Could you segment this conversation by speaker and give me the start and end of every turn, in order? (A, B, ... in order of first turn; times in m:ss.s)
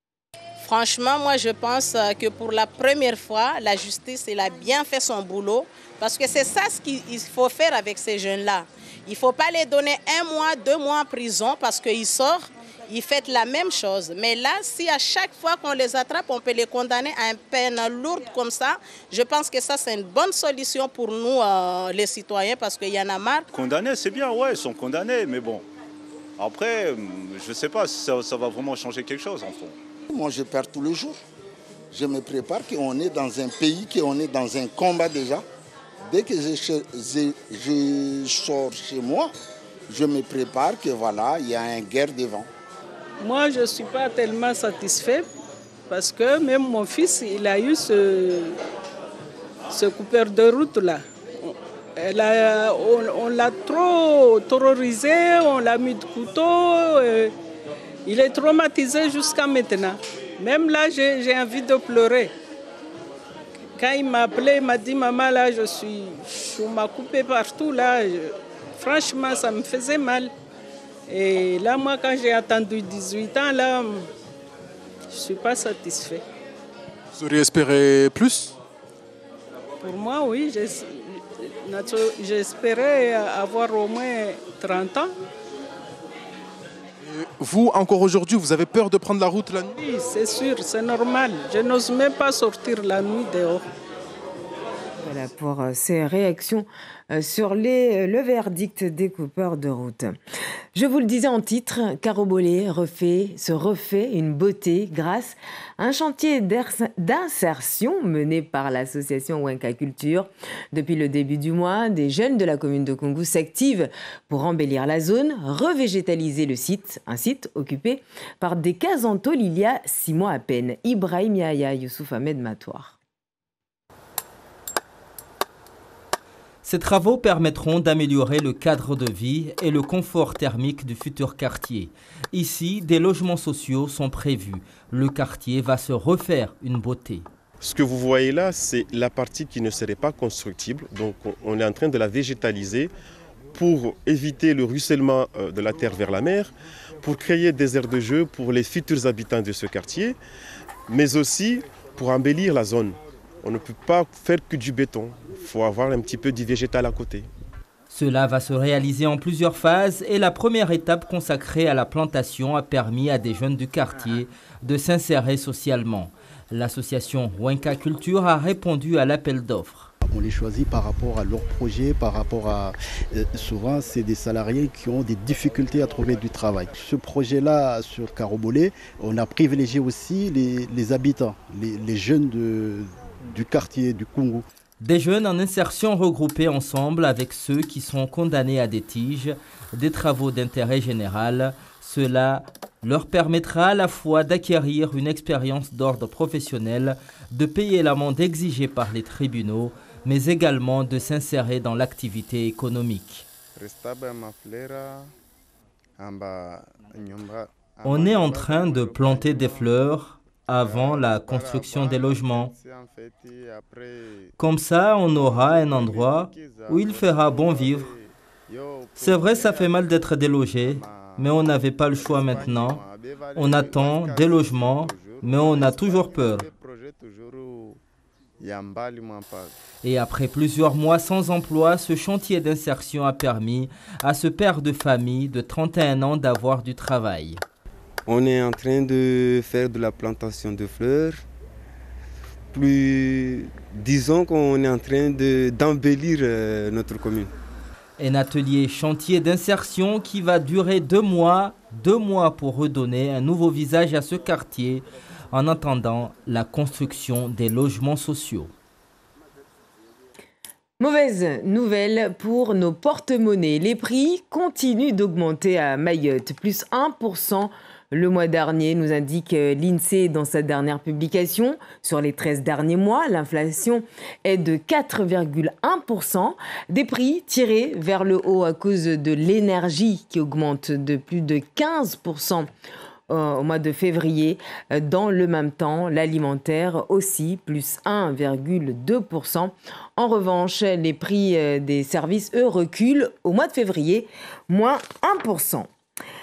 0:00.6-0:23.5 A
0:23.5-0:25.6 B
0:26.4-0:29.7 B
0:30.1-0:31.2 C
0:31.9-0:35.4 C
0:36.0-0:39.3 C
0:39.9-0:42.5 C
0:43.2-0:45.3 D
0:45.9-0:48.6 D
0:49.7-0:57.3 D
0:58.0-1:02.3 D
1:03.8-1:10.3 D
1:11.1-1:14.1 D
1:15.1-1:16.2 D
1:17.2-1:18.3 E
1:19.8-1:25.1 D
1:27.4-1:29.6 E
1:29.8-1:33.6 D
1:35.0-1:40.1 F
1:40.7-2:02.9 F
2:06.6-2:17.3 G
2:17.6-2:22.9 H
2:23.5-2:30.2 H
2:30.9-2:37.3 H
2:37.9-2:49.9 G
2:50.0-3:04.4 I
3:04.8-3:23.2 G
3:27.8-3:32.5 G
3:34.4-3:37.9 G
3:38.9-3:42.8 G
3:43.3-3:46.5 G
3:49.8-3:57.4 G
3:58.0-4:01.2 J
4:02.5-4:07.3 J
4:08.0-4:18.5 G
4:20.8-4:42.5 F
4:43.1-4:55.7 F